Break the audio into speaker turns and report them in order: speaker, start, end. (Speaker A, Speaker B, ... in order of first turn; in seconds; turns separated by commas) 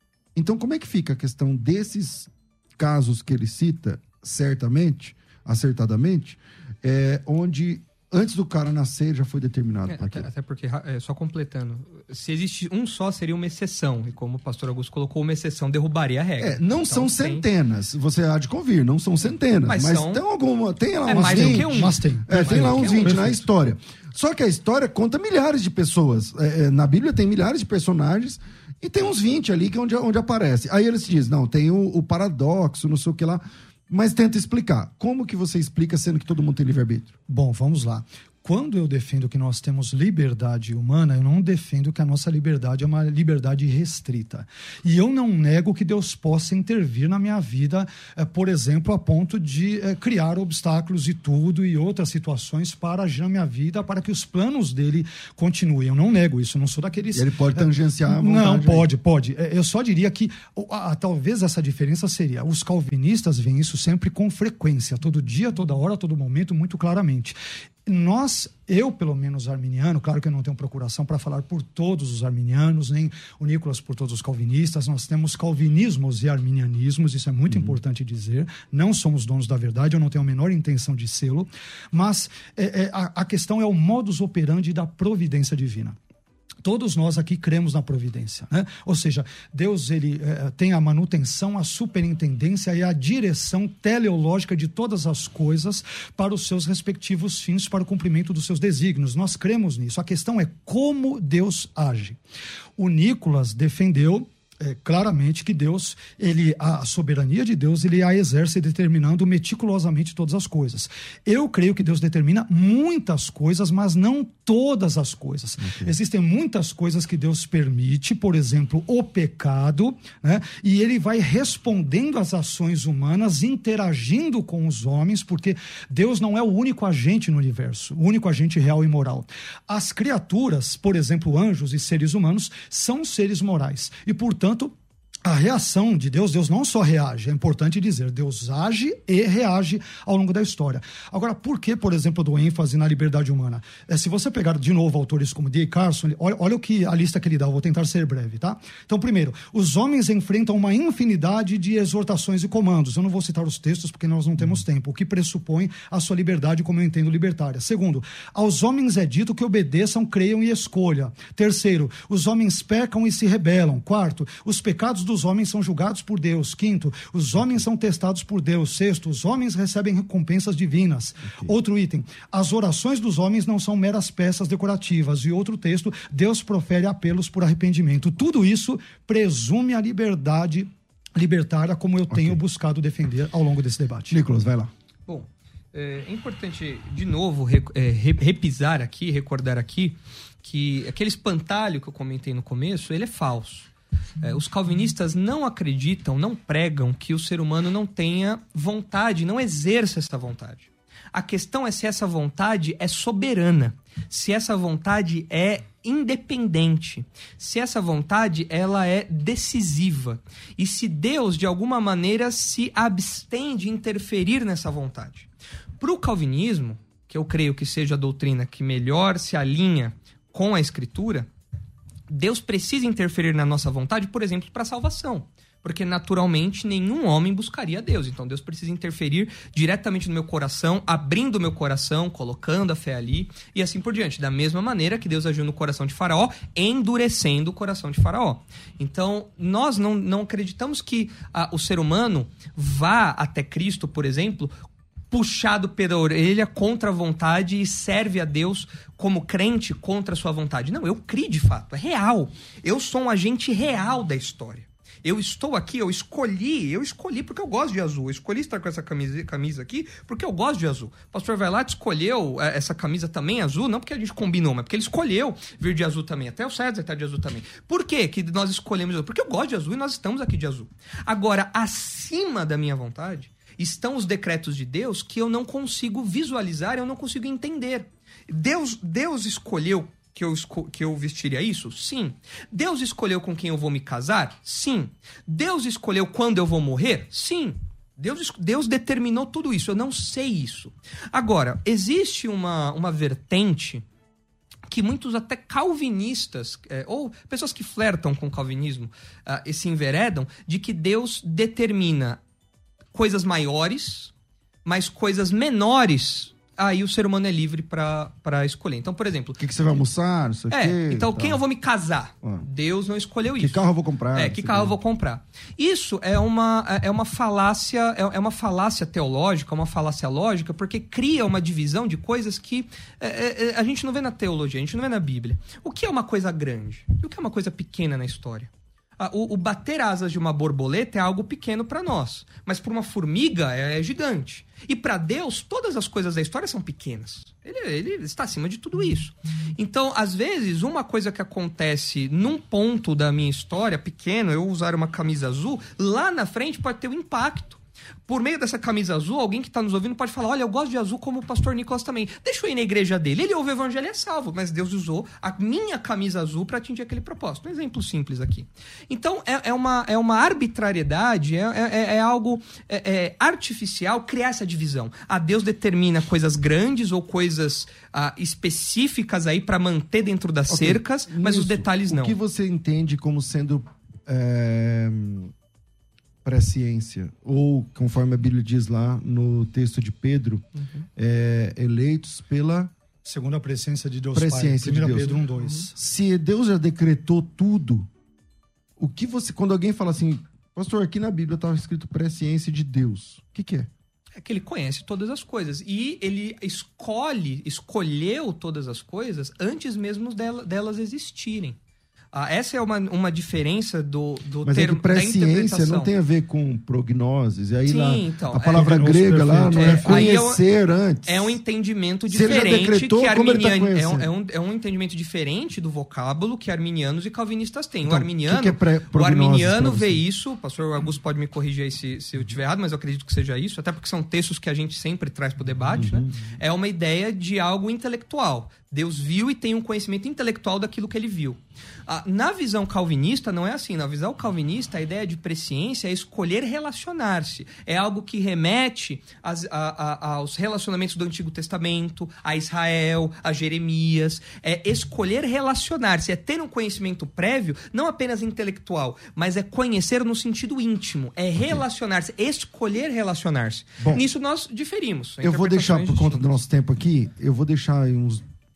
Speaker A: 0.3-10.3, Speaker B: 9.9-17.4, Speaker A: 16.4-37.1, Speaker B: 19.6-20.2, Speaker B: 21.0-23.2, Speaker C: 21.1-23.4, Speaker C: 37.3-86.0, Speaker A: 57.1-58.9, Speaker C: 86.6-102.2, Speaker C: 102.8-184.2, Speaker A: 115.6-115.9, Speaker A: 167.4-167.6, Speaker A: 171.3-171.5, Speaker A: 182.1-182.4, Speaker A: 184.1-184.7, Speaker B: 185.1-193.7, Speaker B: 194.2-215.3, Speaker B: 215.8-221.3, Speaker B: 222.1-244.6, Speaker B: 245.1-293.8, Speaker B: 294.7-302.2, Speaker B: 302.9-304.1, Speaker B: 304.6-309.4, Speaker A: 309.4-311.4, Speaker B: 310.5-313.6, Speaker A: 313.4-314.7, Speaker B: 314.1-372.2, Speaker A: 370.5-375.3, Speaker A: 376.2-382.7, Speaker C: 383.0-385.7, Speaker A: 384.1-387.9, Speaker A: 388.8-393.7, Speaker B: 394.2-401.6, Speaker B: 402.1-405.9, Speaker A: 404.4-411.4, Speaker B: 407.6-408.8, Speaker C: 408.5-410.1, Speaker B: 409.5-410.4, Speaker B: 411.0-456.4, Speaker A: 412.1-414.1, Speaker A: 417.8-420.0, Speaker A: 425.7-426.3, Speaker A: 453.8-454.0, Speaker A: 455.2-458.2